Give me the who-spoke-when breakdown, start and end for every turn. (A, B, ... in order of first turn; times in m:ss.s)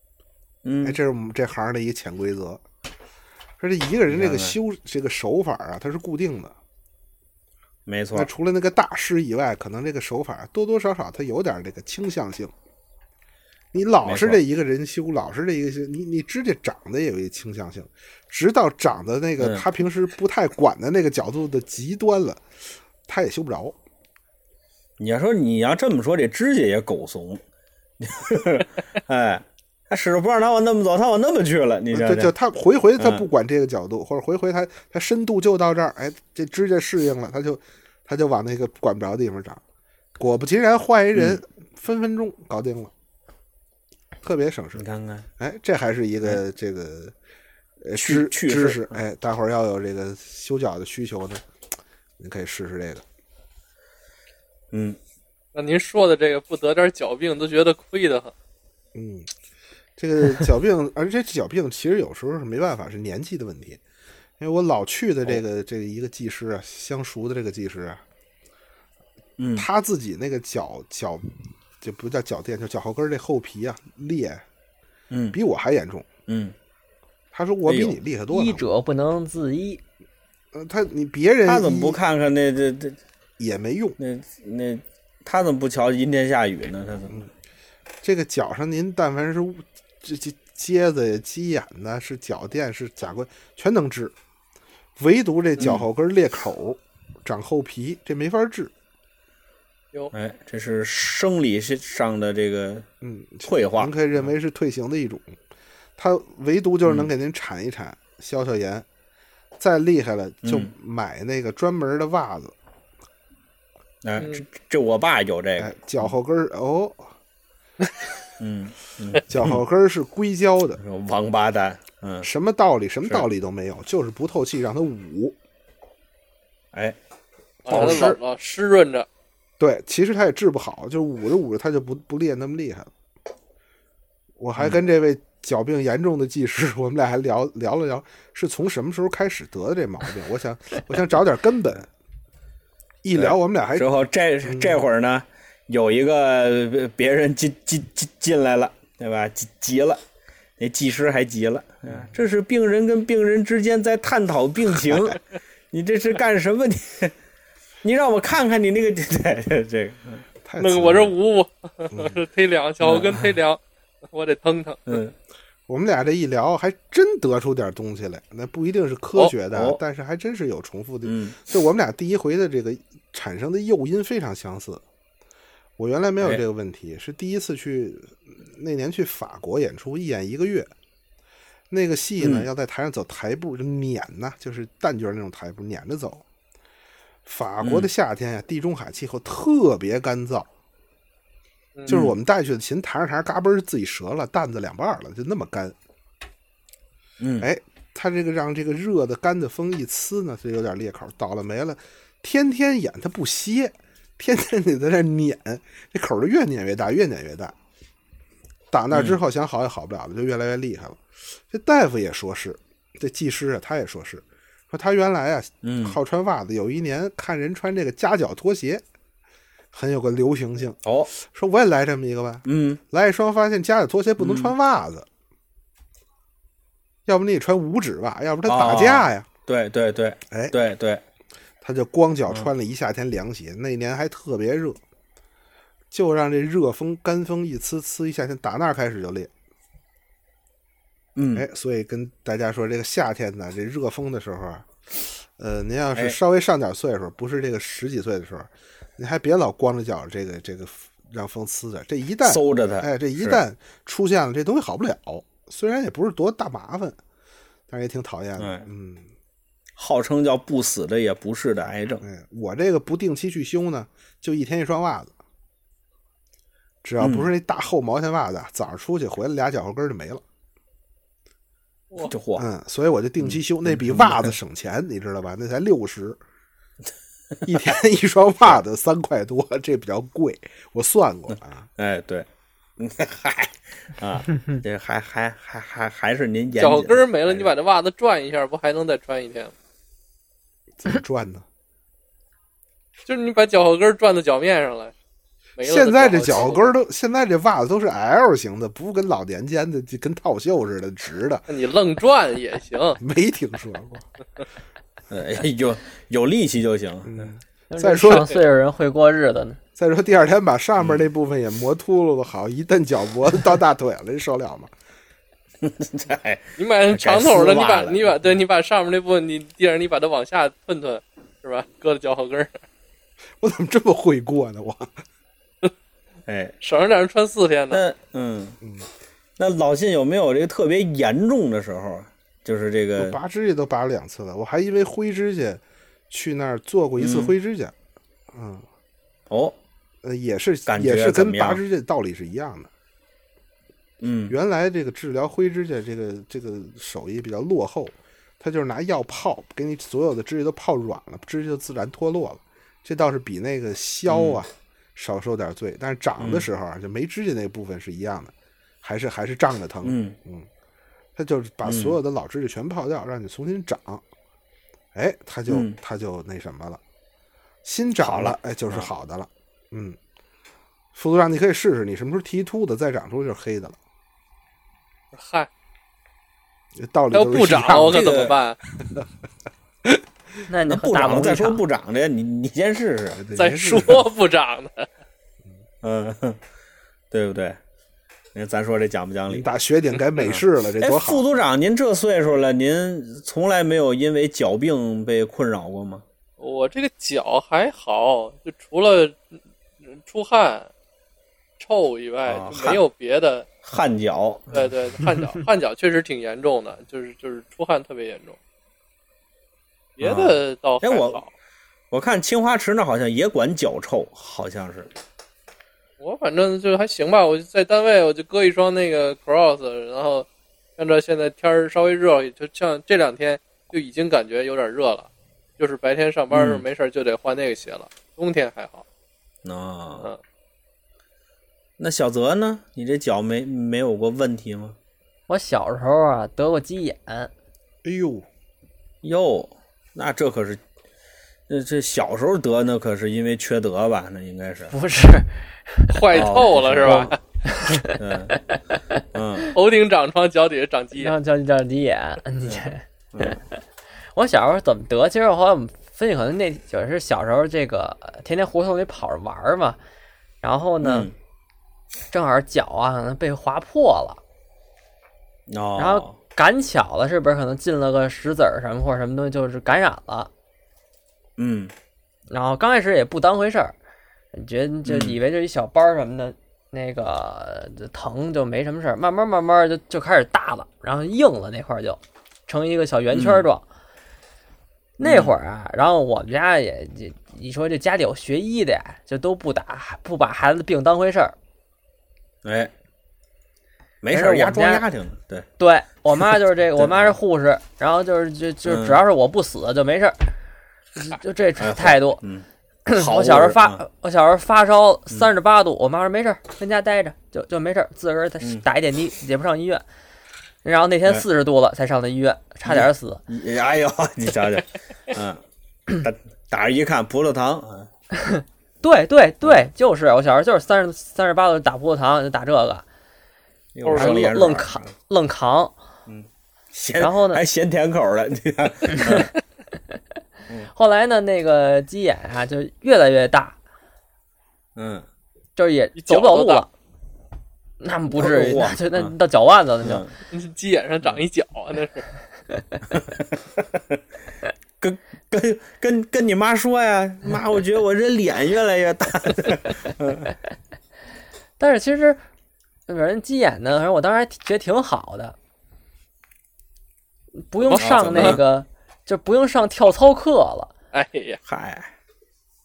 0:00.6-0:01.0 A
0:00.8-0:02.6 B
0:03.6-0:06.6 B
0:04.1-0:04.6 A
0:07.9-0:08.3 A
0:08.1-0:12.5 B
0:13.7-0:22.4 B
0:14.0-0:14.4 A
0:19.4-0:19.6 A
0:23.1-0:23.8 B
0:25.0-0:27.4 A
0:28.0-0:32.3 A
0:31.9-0:39.6 B
0:33.0-0:33.2 A
0:40.2-0:42.9 B
0:41.2-0:41.4 A
0:44.2-0:44.8 B
0:44.8-0:45.3 A
0:45.4-0:47.1 B
0:47.8-0:51.4 B
0:48.0-0:49.0 A
0:52.2-0:53.0 B
0:54.7-0:55.0 A
0:55.5-0:58.3 C
0:58.9-0:59.3 B
1:00.0-1:03.8 B
1:04.4-1:08.0 B
1:09.4-1:09.7 A
1:09.6-1:14.4 B
1:15.1-1:15.4 A
1:15.3-1:16.1 B
1:16.3-1:16.5 A
1:17.3-1:18.6 B
1:17.7-1:18.0 A
1:18.3-1:19.8 D
1:20.5-1:22.0 B
1:21.5-1:23.0 A
1:23.4-1:24.0 B
1:24.0-1:27.2 A
1:28.0-1:34.1 B
1:35.0-1:38.7 B
1:35.6-1:35.9 A
1:40.1-1:42.9 A
1:43.0-1:45.4 B
1:43.4-1:43.9 A
1:46.0-1:48.9 B
1:49.6-1:52.6 B
1:50.4-1:50.7 A
1:54.0-1:56.1 A
1:55.6-1:57.1 B
1:58.4-1:59.6 A
1:59.3-2:00.8 B
2:00.8-2:02.3 A
2:02.2-2:05.4 B
2:07.7-2:09.1 C
2:07.7-2:08.2 A
2:07.7-2:08.2 B
2:09.6-2:12.9 B
2:14.4-2:21.9 B
2:23.0-2:23.9 B
2:23.2-2:30.0 A
2:24.4-2:24.8 B
2:30.6-2:35.2 A
2:35.7-2:37.1 A
2:37.8-2:40.2 A
2:40.4-2:41.1 B
2:40.6-2:45.0 C
2:42.8-2:43.3 A
2:44.9-2:45.1 A
2:45.7-2:54.8 B
2:49.4-2:49.8 A
2:51.0-2:51.4 A
2:55.8-3:00.7 B
3:01.7-3:06.2 B
3:02.2-3:02.5 A
3:07.3-3:10.5 B
3:07.6-3:07.9 A
3:11.9-3:15.8 B
3:11.9-3:12.2 A
3:17.2-3:17.5 A
3:17.4-3:27.6 B
3:28.7-3:38.8 B
3:28.9-3:29.2 A
3:35.6-3:36.0 A
3:39.7-3:45.1 B
3:40.8-3:41.1 A
3:42.5-3:42.8 A
3:44.2-3:44.5 A
3:47.1-3:49.3 B
3:48.5-3:51.0 A
3:51.6-3:54.8 B
3:55.9-3:59.3 B
4:01.2-4:01.5 A
4:01.4-4:17.0 B
4:12.2-4:13.4 A
4:17.7-4:19.1 B
4:18.4-4:18.6 A
4:19.8-4:22.0 A
4:22.0-4:25.1 B
4:26.8-4:30.2 B
4:27.0-4:27.3 A
4:32.1-4:32.4 A
4:32.4-4:36.2 B
4:33.2-4:34.3 A
4:37.4-4:41.7 B
4:41.8-4:42.3 A
4:42.8-4:47.5 A
4:46.6-4:49.5 C
4:50.8-4:51.4 B
4:53.1-4:54.9 C
4:55.6-4:56.7 C
4:55.6-5:01.4 B
5:01.5-5:03.0 C
5:03.0-5:04.1 B
5:05.1-5:07.3 A
5:07.1-5:08.3 B
5:07.7-5:09.6 D
5:08.1-5:08.4 C
5:09.8-5:14.7 B
5:15.6-5:18.2 A
5:16.6-5:22.6 C
5:23.4-5:25.0 B
5:26.3-5:26.6 A
5:26.6-5:27.8 C
5:27.7-5:28.6 A
5:29.4-5:33.2 A
5:33.0-5:37.7 B
5:37.0-5:37.3 A
5:38.3-5:38.6 B
5:39.3-5:39.6 A
5:40.0-5:42.7 B
5:40.7-5:41.6 A
5:44.0-5:44.4 A
5:44.3-5:58.3 B
5:54.1-5:54.4 A
5:56.2-5:56.5 A
5:58.8-6:00.5 B
5:59.8-6:00.2 A
6:01.2-6:04.0 B
6:01.6-6:02.0 A
6:04.9-6:06.8 B
6:05.5-6:05.8 A
6:07.6-6:10.0 B
6:08.0-6:08.9 A
6:10.9-6:13.8 B
6:15.1-6:15.5 C
6:16.8-6:18.1 B
6:17.1-6:18.6 C
6:17.7-6:18.4 A
6:18.8-6:19.1 B
6:20.5-6:21.6 D
6:20.6-6:23.2 A
6:23.2-6:24.0 B
6:23.3-6:24.9 C
6:25.8-6:26.4 A
6:27.1-6:27.6 A
6:28.4-6:29.5 A
6:29.3-6:31.2 B
6:30.2-6:36.0 A
6:36.4-6:40.7 C
6:41.6-6:43.5 C
6:42.3-6:42.8 A
6:43.6-6:44.7 A
6:44.5-6:48.4 C
6:50.0-6:51.3 C
6:50.0-6:51.2 A
6:51.9-6:54.9 A
6:56.0-7:08.8 C
7:06.3-7:06.6 A
7:09.4-7:10.1 A
7:11.8-7:14.8 A
7:15.3-7:17.3 D
7:17.8-7:18.3 B
7:19.0-7:20.6 A
7:21.5-7:24.7 A
7:24.7-7:26.1 D
7:25.9-7:27.2 C
7:26.1-7:27.1 A
7:26.8-7:28.8 D
7:27.8-7:28.4 A
7:29.1-7:29.5 A
7:29.5-7:31.1 C
7:31.0-7:33.6 D
7:32.4-7:33.4 A
7:34.1-7:39.8 D
7:40.4-7:41.1 D
7:40.8-7:41.1 A
7:42.1-7:44.2 D
7:45.5-7:46.2 A
7:45.8-7:50.3 D
7:51.4-7:51.7 A
7:52.3-7:53.8 D
7:54.3-8:03.6 D
7:54.8-7:55.2 A
8:03.1-8:03.5 A
8:05.0-8:11.4 D
8:05.0-8:05.4 A
8:12.4-8:12.7 A
8:14.0-8:15.5 A
8:14.1-8:14.8 D
8:15.6-8:20.4 D
8:16.2-8:17.2 A
8:18.6-8:19.0 A
8:21.0-8:22.2 D
8:21.6-8:23.8 A
8:22.9-8:29.8 D
8:30.6-8:33.2 D
8:32.6-8:37.9 A
8:38.2-8:42.8 D
8:43.8-8:44.9 A
8:43.8-8:44.3 C
8:43.9-8:45.8 D
8:46.1-8:49.3 A
8:47.0-8:47.4 D
8:48.9-8:49.3 D
8:50.7-8:53.6 D
8:54.8-8:55.0 A
8:55.6-8:56.7 D
8:56.0-8:56.7 C
8:57.8-9:00.0 D
8:58.1-8:59.1 A
8:59.8-9:00.1 A
9:00.3-9:02.1 C
9:03.0-9:04.0 A
9:04.8-9:10.3 A
9:11.6-9:12.2 D
9:12.9-9:15.4 D
9:17.5-9:20.7 D
9:17.6-9:18.4 C
9:17.8-9:18.4 A
9:20.9-9:21.4 C
9:21.5-9:21.9 A